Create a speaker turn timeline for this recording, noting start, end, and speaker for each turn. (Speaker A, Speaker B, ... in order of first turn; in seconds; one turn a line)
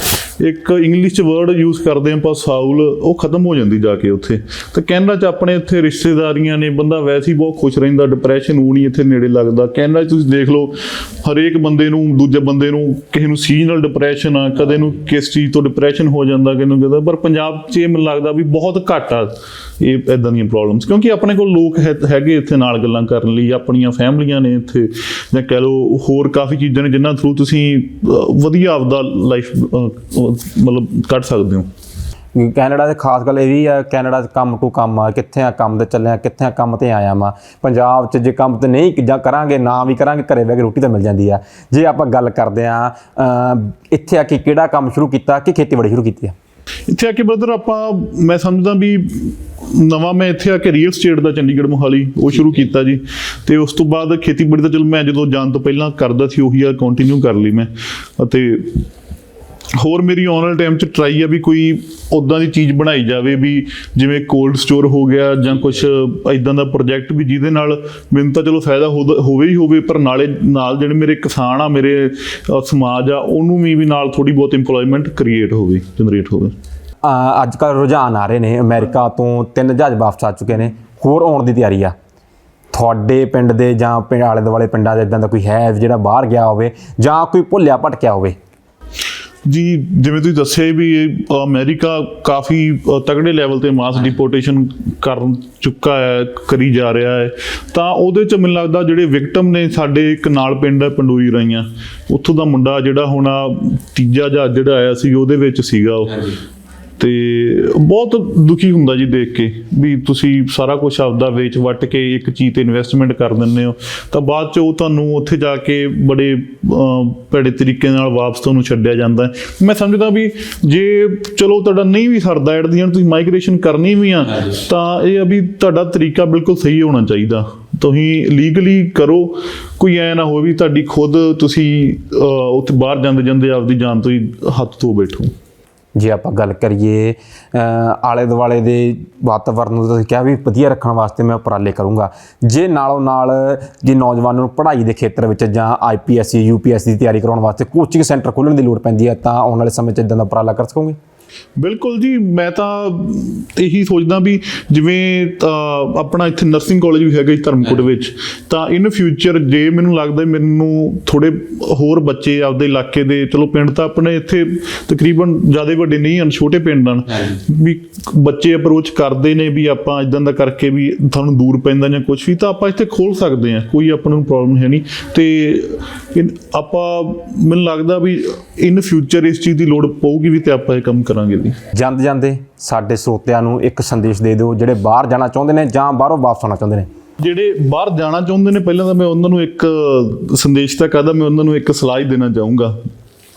Speaker A: 0.4-31.7
Speaker B: 32.3-46.3
Speaker A: 46.9-58.9
Speaker A: 59.8-76.5
Speaker B: 77.0-81.9
Speaker B: 82.7-88.3
Speaker A: 89.5-106.4
Speaker A: 107.0-135.3
Speaker B: 136.0-151.0
Speaker A: 151.6-181.6
Speaker B: 181.7-186.9
Speaker A: 187.2-192.7